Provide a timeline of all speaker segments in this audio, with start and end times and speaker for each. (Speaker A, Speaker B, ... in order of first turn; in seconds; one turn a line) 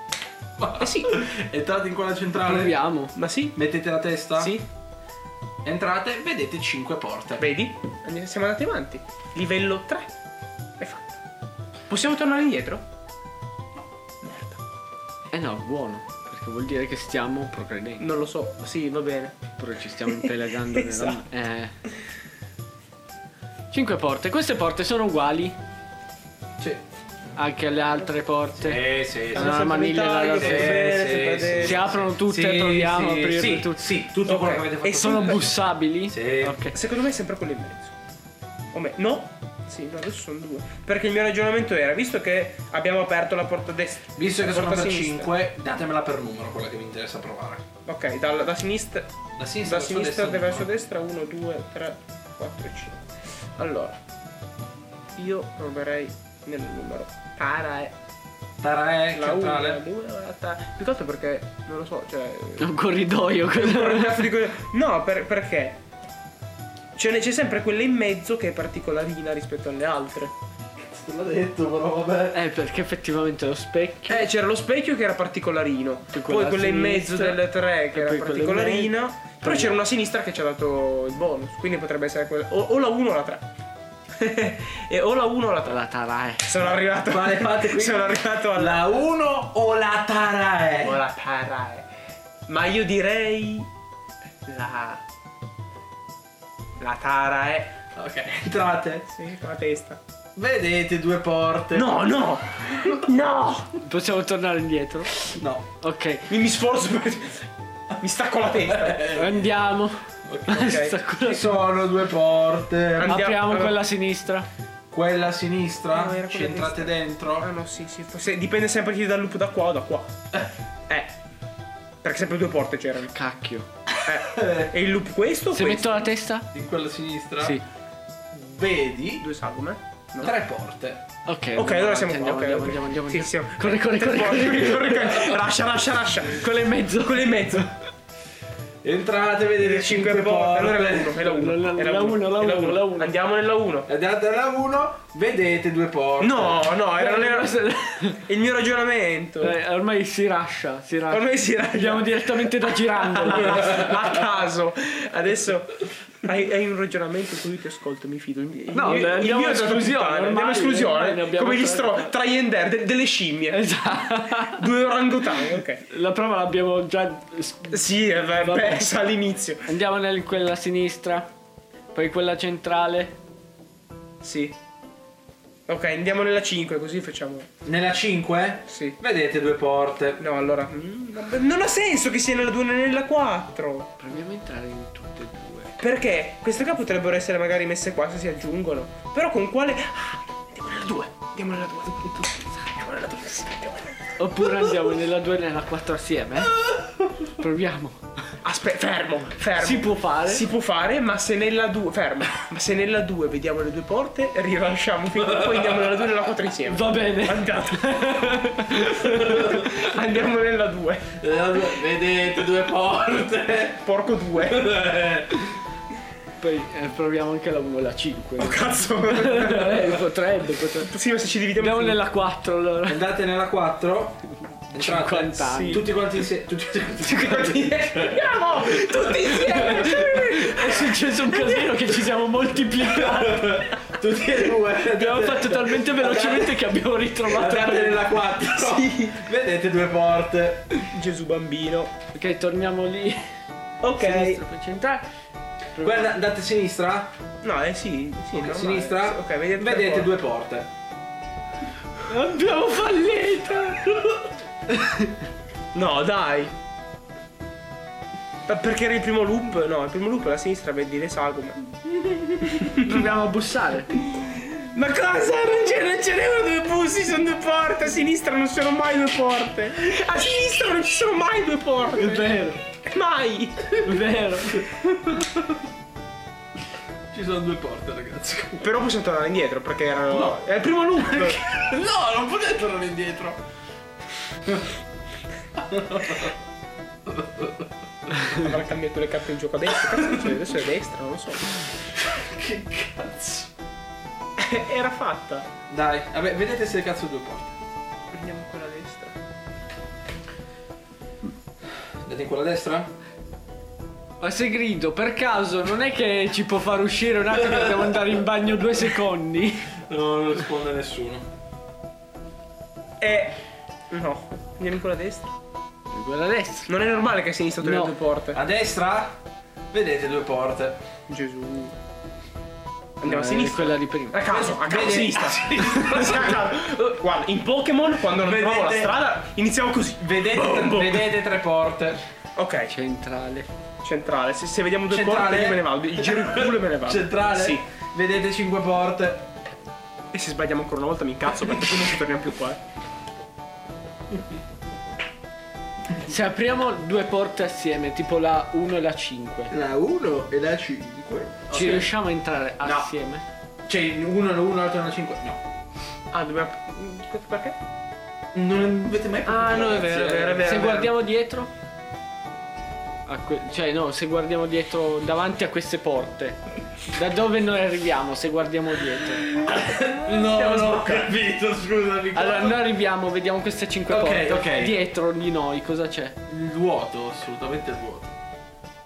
Speaker A: 0.6-2.8
Speaker B: 0.8-1.1
Speaker C: 2.4-3.1
Speaker B: 3.1-3.6
Speaker A: 3.5-4.5
Speaker B: 4.4-4.6
Speaker A: 5.6-7.5
Speaker B: 7.4-10.1
Speaker B: 10.8-11.2
Speaker B: 11.9-12.8
Speaker C: 15.3-18.1
Speaker B: 18.0-19.3
Speaker C: 19.6-21.7
Speaker B: 20.2-21.2
Speaker C: 23.7-25.6
Speaker C: 27.4-30.9
Speaker A: 28.6-35.5
Speaker B: 29.3-31.9
Speaker C: 31.6-33.9
Speaker B: 34.1-35.5
Speaker C: 34.9-36.8
Speaker A: 36.1-36.6
Speaker B: 36.7-37.9
Speaker B: 38.7-45.3
Speaker A: 44.1-47.6
Speaker B: 47.9-49.1
Speaker A: 49.4-50.7
Speaker B: 49.6-54.0
Speaker B: 55.2-57.9
Speaker A: 58.6-59.8
Speaker B: 59.1-62.7
Speaker C: 62.6-64.3
Speaker B: 63.5-65.8
Speaker B: 66.9-70.3
Speaker A: 70.7-72.4
Speaker C: 72.3-74.3
Speaker B: 74.1-83.5
Speaker C: 76.1-77.4
Speaker C: 77.9-79.7
Speaker B: 84.2-85.8
Speaker C: 85.7-86.5
Speaker B: 86.4-88.8
Speaker A: 87.1-91.0
Speaker B: 90.8-91.9
Speaker B: 92.5-93.7
Speaker B: 94.4-95.0
Speaker B: 96.8-97.8
Speaker A: 97.9-99.1
Speaker B: 99.1-100.0
Speaker A: 100.3-102.0
Speaker B: 101.7-103.7
Speaker C: 103.8-106.3
Speaker A: 105.3-105.6
Speaker B: 106.3-109.2
Speaker A: 108.5-109.4
Speaker C: 109.1-111.5
Speaker A: 110.2-113.2
Speaker B: 110.5-110.9
Speaker B: 113.0-113.8
Speaker C: 113.0-114.5
Speaker A: 114.9-117.5
Speaker B: 115.9-120.1
Speaker B: 120.9-121.1
Speaker B: 122.0-123.1
Speaker C: 123.1-123.7
Speaker B: 124.0-126.1
Speaker A: 124.3-124.7
Speaker C: 125.5-126.5
Speaker A: 126.5-127.6
Speaker A: 128.3-129.2
Speaker B: 129.2-130.3
Speaker A: 130.2-131.0
Speaker C: 131.2-135.4
Speaker B: 131.5-136.4
Speaker C: 136.3-137.7
Speaker B: 137.0-137.7
Speaker A: 138.8-141.2
Speaker B: 139.6-143.9
Speaker C: 141.1-143.1
Speaker A: 143.9-146.7
Speaker B: 146.2-147.6
Speaker C: 146.9-148.2
Speaker B: 148.1-149.5
Speaker C: 149.4-154.2
Speaker B: 151.1-163.7
Speaker C: 158.7-162.1
Speaker C: 163.5-164.7
Speaker B: 164.3-165.8
Speaker C: 165.9-169.0
Speaker B: 167.7-169.7
Speaker C: 169.7-171.3
Speaker C: 171.9-173.2
Speaker B: 174.2-174.6
Speaker B: 175.7-177.5
Speaker A: 177.6-180.2
Speaker B: 178.7-179.0
Speaker B: 180.2-183.9
Speaker C: 184.0-185.8
Speaker B: 185.8-194.7
Speaker C: 194.2-196.7
Speaker C: 197.2-198.0
Speaker B: 198.4-211.1
Speaker C: 199.6-200.4
Speaker A: 205.2-206.0
Speaker C: 206.7-209.9
Speaker A: 211.2-215.5
Speaker B: 213.8-214.7
Speaker C: 216.4-220.9
Speaker B: 218.4-220.0
Speaker B: 220.8-222.0
Speaker C: 221.6-223.1
Speaker A: 222.9-229.1
Speaker C: 224.7-225.9
Speaker C: 227.1-227.5
Speaker B: 227.1-231.7
Speaker C: 229.2-233.8
Speaker A: 232.8-236.6
Speaker C: 234.7-238.1
Speaker A: 237.2-240.8
Speaker B: 238.3-239.2
Speaker B: 240.9-241.9
Speaker C: 242.1-243.3
Speaker B: 243.8-244.4
Speaker C: 244.0-245.1
Speaker C: 245.8-246.2
Speaker A: 245.8-247.1
Speaker B: 247.4-250.1
Speaker A: 248.3-250.7
Speaker C: 252.1-255.2
Speaker B: 255.7-256.5
Speaker B: 258.4-261.8
Speaker B: 262.3-263.1
Speaker C: 262.7-264.0
Speaker B: 264.0-273.9
Speaker C: 271.9-272.6
Speaker C: 273.8-274.7
Speaker A: 274.7-275.6
Speaker A: 277.1-278.7
Speaker B: 278.6-281.4
Speaker A: 280.1-280.4
Speaker A: 281.0-283.4
Speaker A: 285.6-286.3
Speaker A: 287.1-288.1
Speaker B: 288.2-291.6
Speaker A: 289.9-290.3
Speaker A: 291.9-293.5
Speaker B: 294.4-295.5
Speaker A: 295.7-297.6
Speaker B: 298.1-299.1
Speaker A: 302.0-302.9
Speaker C: 304.2-309.8
Speaker A: 307.5-307.8
Speaker A: 309.8-311.3
Speaker B: 313.0-313.4
Speaker B: 313.9-315.3
Speaker C: 315.9-316.7
Speaker B: 316.7-318.4
Speaker C: 317.6-317.9
Speaker A: 318.3-320.8
Speaker B: 321.1-321.7
Speaker B: 323.0-331.1
Speaker C: 323.0-324.2
Speaker A: 324.3-326.6
Speaker A: 328.1-328.9
Speaker A: 330.0-332.0
Speaker B: 332.4-332.7
Speaker C: 332.7-333.5
Speaker B: 333.8-337.6
Speaker A: 334.9-339.3
Speaker B: 340.1-342.6
Speaker C: 346.0-349.5
Speaker A: 349.5-351.9
Speaker C: 351.5-353.2
Speaker A: 352.6-352.9
Speaker A: 353.6-355.4
Speaker B: 356.1-357.6
Speaker A: 358.3-360.8
Speaker B: 359.2-360.9
Speaker C: 360.4-361.5
Speaker C: 363.1-369.3
Speaker A: 369.2-372.6
Speaker B: 370.1-371.1
Speaker C: 372.1-376.2
Speaker A: 373.9-374.8
Speaker A: 376.3-378.1